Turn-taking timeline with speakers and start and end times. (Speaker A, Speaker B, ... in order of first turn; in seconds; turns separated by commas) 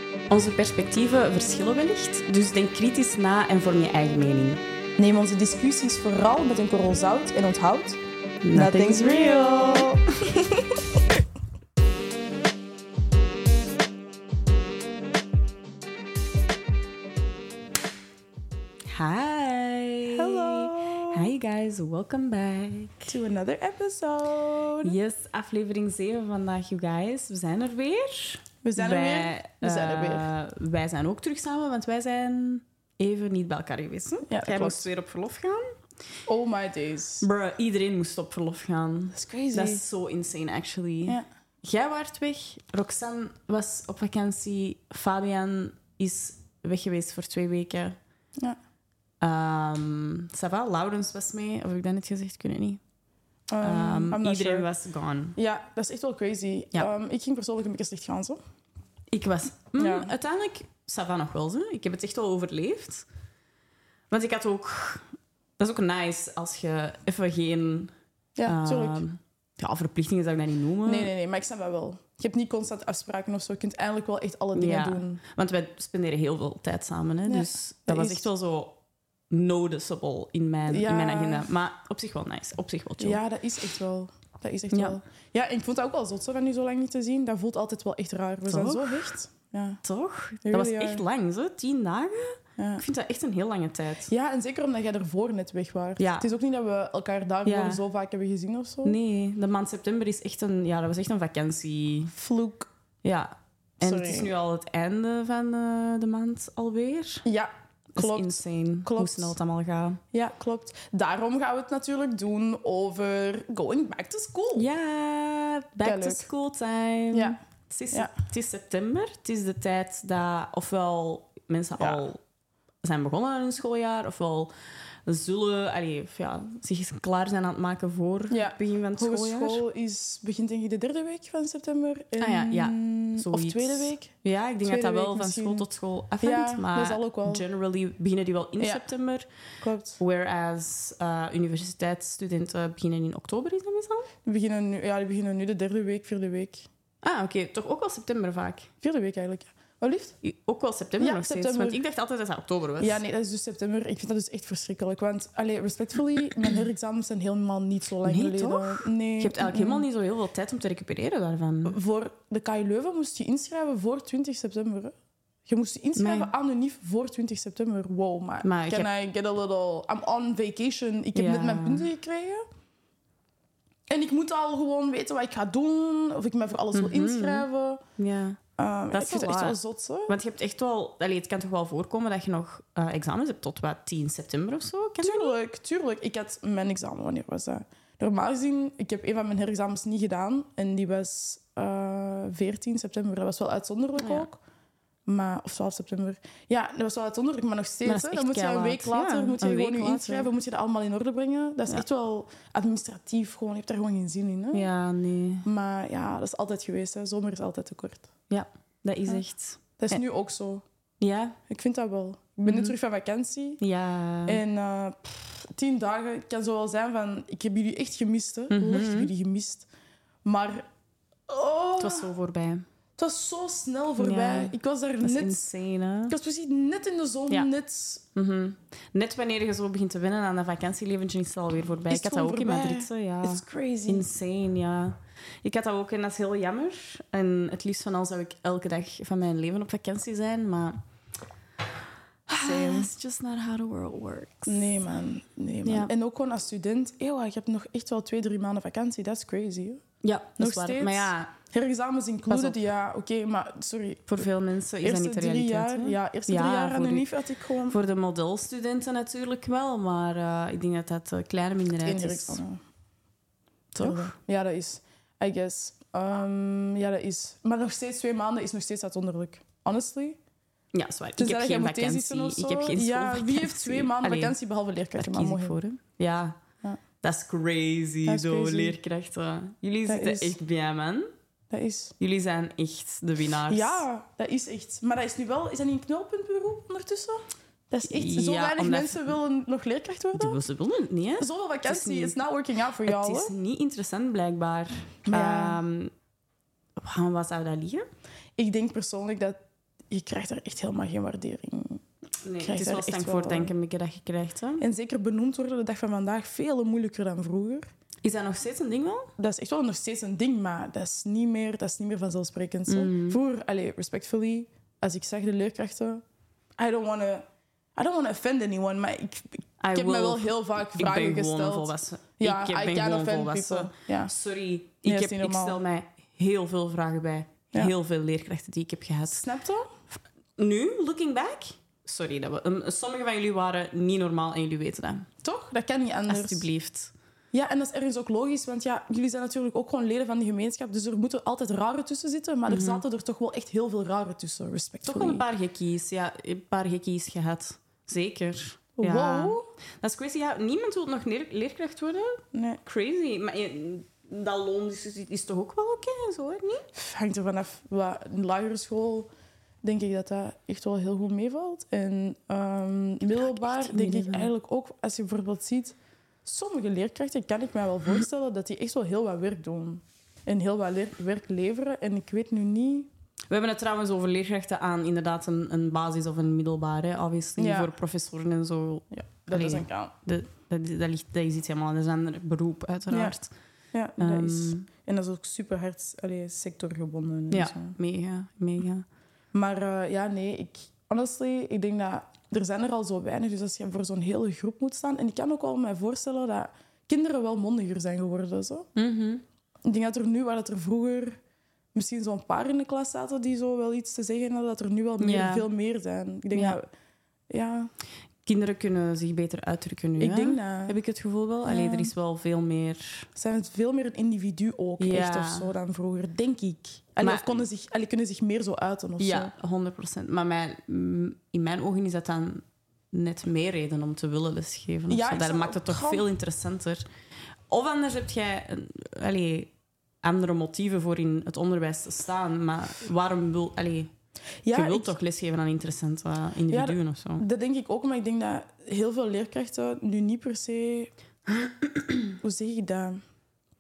Speaker A: 0.3-4.6, Speaker B: 5.0-8.0, Speaker A: 8.4-10.8, Speaker B: 8.5-10.1, Speaker A: 18.9-23.1, Speaker B: 20.1-21.3, Speaker B: 23.1-25.0, Speaker A: 24.8-35.8, Speaker B: 28.6-30.3, Speaker B: 34.3-34.9, Speaker B: 36.3-37.3, Speaker A: 37.2-48.0, Speaker B: 39.1-39.8, Speaker A: 49.2-52.8, Speaker B: 53.5-54.7, Speaker A: 53.6-55.4, Speaker B: 55.4-58.4, Speaker A: 59.1-63.0, Speaker B: 59.8-60.1, Speaker A: 64.1-67.9, Speaker B: 68.4-69.0, Speaker A: 68.5-71.1, Speaker B: 70.8-75.2, Speaker A: 74.5-78.8, Speaker B: 77.3-78.3, Speaker A: 79.3-83.2, Speaker B: 80.7-81.5, Speaker B: 83.0-89.8, Speaker A: 84.7-85.0, Speaker A: 88.4-89.1, Speaker A: 89.8-94.1, Speaker B: 90.4-91.0, Speaker B: 92.6-92.8, Speaker B: 94.1-99.0, Speaker A: 96.0-96.3, Speaker A: 97.4-97.8, Speaker A: 98.8-102.1, Speaker B: 102.1-102.7, Speaker A: 103.0-107.2, Speaker B: 103.8-104.3, Speaker B: 107.2-109.3, Speaker A: 107.9-110.0, Speaker B: 110.1-114.7, Speaker A: 114.5-122.2, Speaker B: 115.8-116.3, Speaker B: 117.1-117.4, Speaker B: 121.8-122.1, Speaker A: 122.8-124.5, Speaker A: 125.1-129.6, Speaker B: 128.3-134.1, Speaker A: 132.2-139.2, Speaker B: 134.6-135.7, Speaker B: 136.2-137.4, Speaker B: 138.6-138.9, Speaker B: 139.6-140.0, Speaker A: 140.0-144.1, Speaker B: 144.2-146.7, Speaker A: 147.0-148.7, Speaker B: 148.8-150.2, Speaker A: 150.2-153.0, Speaker B: 151.0-151.8, Speaker B: 152.8-159.8, Speaker A: 158.0-161.8, Speaker B: 161.7-164.9, Speaker B: 165.4-172.4, Speaker A: 166.0-166.3, Speaker A: 168.4-168.9, Speaker A: 171.1-171.9, Speaker B: 173.9-177.8, Speaker A: 176.7-177.4, Speaker A: 178.0-178.4, Speaker B: 178.6-180.2, Speaker A: 178.9-185.3, Speaker B: 185.0-194.4, Speaker A: 194.0-194.2, Speaker B: 195.1-204.7, Speaker A: 197.8-200.3, Speaker A: 204.5-205.4, Speaker B: 205.4-208.1, Speaker A: 208.3-210.0, Speaker B: 209.8-210.7, Speaker A: 211.0-211.3, Speaker B: 211.5-213.6, Speaker A: 212.4-212.8, Speaker A: 213.6-214.4, Speaker B: 214.2-219.7, Speaker A: 218.5-219.1, Speaker B: 220.2-220.7, Speaker B: 221.3-222.1, Speaker A: 221.8-222.7, Speaker B: 223.0-225.4, Speaker A: 224.0-226.2, Speaker B: 226.1-228.0, Speaker A: 228.2-240.8, Speaker B: 231.9-234.1, Speaker B: 242.3-242.9, Speaker A: 242.3-244.7, Speaker B: 244.4-249.8, Speaker A: 245.7-245.9, Speaker A: 250.0-251.3, Speaker B: 250.4-254.3, Speaker A: 252.3-252.6, Speaker A: 254.1-257.1, Speaker B: 254.8-257.8, Speaker A: 257.7-262.4, Speaker B: 261.9-262.6, Speaker A: 263.7-264.1, Speaker B: 263.8-270.2, Speaker A: 270.7-274.4, Speaker B: 271.2-275.6, Speaker A: 275.0-276.4, Speaker A: 277.0-281.1, Speaker B: 278.1-278.8, Speaker B: 279.9-280.4, Speaker B: 281.5-281.9, Speaker A: 282.0-283.8, Speaker B: 283.5-290.4, Speaker A: 287.8-289.1, Speaker A: 290.1-292.2, Speaker B: 291.2-293.3, Speaker A: 292.9-295.9, Speaker B: 295.1-295.6, Speaker A: 296.8-297.9, Speaker B: 298.4-299.4, Speaker B: 299.9-301.8, Speaker A: 302.2-304.6, Speaker B: 302.4-303.5, Speaker B: 304.6-307.7, Speaker A: 308.0-309.1, Speaker B: 309.2-316.0, Speaker A: 312.7-313.2, Speaker B: 316.6-317.2, Speaker B: 317.8-324.1, Speaker A: 319.6-329.2, Speaker B: 324.8-325.6, Speaker B: 329.1-329.7, Speaker A: 330.4-335.1, Speaker B: 335.2-336.5, Speaker A: 336.1-336.9, Speaker B: 337.3-345.2, Speaker A: 342.5-342.8, Speaker A: 344.9-356.7, Speaker B: 348.8-349.5, Speaker B: 352.3-352.6, Speaker B: 356.7-359.1, Speaker B: 359.6-372.9, Speaker A: 363.1-364.3, Speaker A: 373.3-383.3, Speaker B: 377.4-377.7, Speaker B: 378.9-379.9, Speaker B: 382.9-383.2, Speaker B: 383.7-387.8, Speaker A: 384.0-384.7, Speaker A: 387.3-388.9, Speaker B: 389.3-398.7, Speaker A: 398.8-399.2, Speaker B: 399.6-401.2, Speaker B: 401.7-406.7, Speaker A: 405.0-405.5, Speaker B: 407.3-407.7, Speaker A: 408.2-413.1, Speaker B: 410.0-410.8, Speaker B: 411.4-411.9, Speaker B: 413.2-419.3, Speaker A: 414.8-415.5, Speaker A: 417.0-417.4, Speaker A: 419.0-426.8, Speaker B: 424.9-426.1, Speaker A: 427.5-433.9, Speaker B: 434.4-434.9, Speaker A: 434.5-437.2, Speaker B: 436.5-440.9, Speaker A: 441.4-442.1, Speaker B: 442.2-443.0